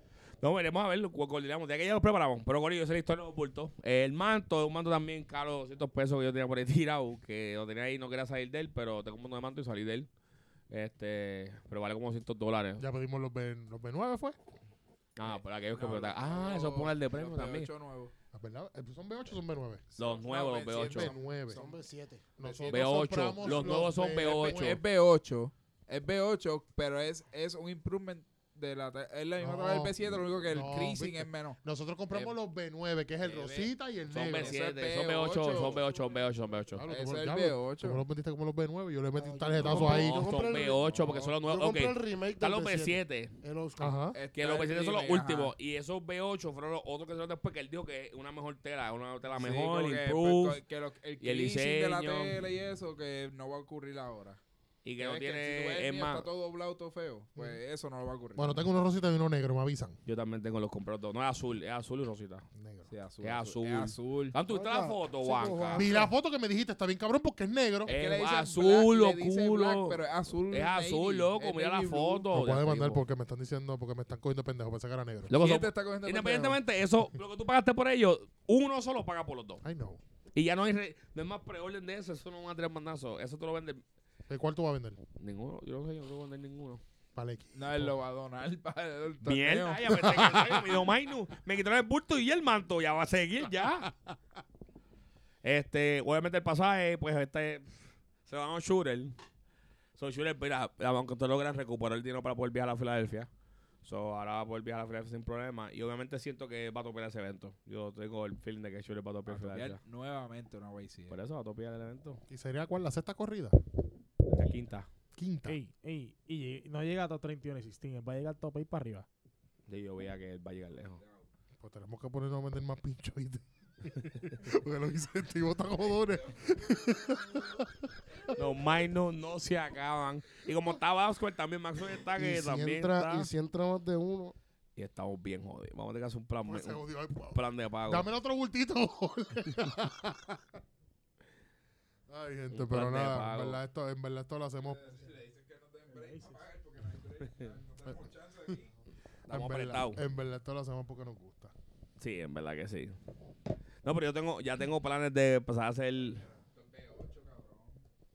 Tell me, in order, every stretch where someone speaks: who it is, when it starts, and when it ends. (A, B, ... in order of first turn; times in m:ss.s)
0:00.4-0:10.1 A
0:10.7-0:12.8 A
0:12.8-0:14.4 B
0:15.2-0:17.7 A
0:15.2-0:18.1 C
0:18.3-0:19.8 B
0:19.9-0:21.6 C
0:20.0-0:21.1 A
0:20.8-0:21.7 B
0:21.5-0:22.9 D
0:22.4-0:24.8 B
0:22.7-0:24.8 A
0:23.4-0:31.6 C
0:29.4-0:34.6 B
0:33.2-0:38.0 C
0:34.1-0:36.8 A
0:36.8-0:40.2 B
0:39.2-0:40.8 D
0:39.6-0:43.4 A
0:40.7-0:41.4 C
0:41.4-0:44.0 D
0:43.8-0:44.2 B
0:44.1-0:45.5 C
0:44.3-0:50.6 A
0:49.3-0:54.4 C
0:51.2-0:52.4 A
0:54.8-0:56.3 A
0:55.0-0:58.7 C
0:58.4-1:00.0 B
1:00.1-1:02.5 A
1:02.5-1:02.9 B
1:02.9-1:04.4 C
1:03.2-1:06.0 A
1:04.5-1:06.1 D
1:05.8-1:07.9 B
1:07.8-1:10.0 A
1:07.9-1:12.3 C
1:10.5-1:13.0 A
1:12.3-1:15.3 B
1:15.3-1:19.6 A
1:15.3-1:16.6 C
1:19.6-1:20.0 B
1:20.4-1:23.8 A
1:24.3-1:25.0 B
1:25.2-1:26.8 A
1:27.2-1:27.9 B
1:27.5-1:30.2 C
1:29.2-1:33.9 A
1:29.8-1:30.9 B
1:35.4-1:39.2 A
1:40.0-1:43.3 A
1:43.8-1:49.8 A
1:49.3-1:51.2 C
1:51.1-1:52.2 A
1:52.3-1:53.6 B
1:54.3-1:54.9 A
1:55.2-1:55.6 B
1:55.4-1:59.1 E
1:59.7-2:01.0 A
2:01.0-2:01.3 C
2:01.6-2:07.7 B
2:06.1-2:07.5 C
2:08.3-2:13.3 A
2:12.2-2:14.4 D
2:14.8-2:18.1 A
2:16.5-2:20.6 B
2:22.1-2:25.1 B
2:22.5-2:23.6 A
2:24.6-2:28.7 C
2:25.9-2:26.4 E
2:29.3-2:30.0 A
2:29.3-2:31.5 B
2:32.0-2:32.9 A
2:33.8-2:36.2 A
2:36.0-2:37.8 C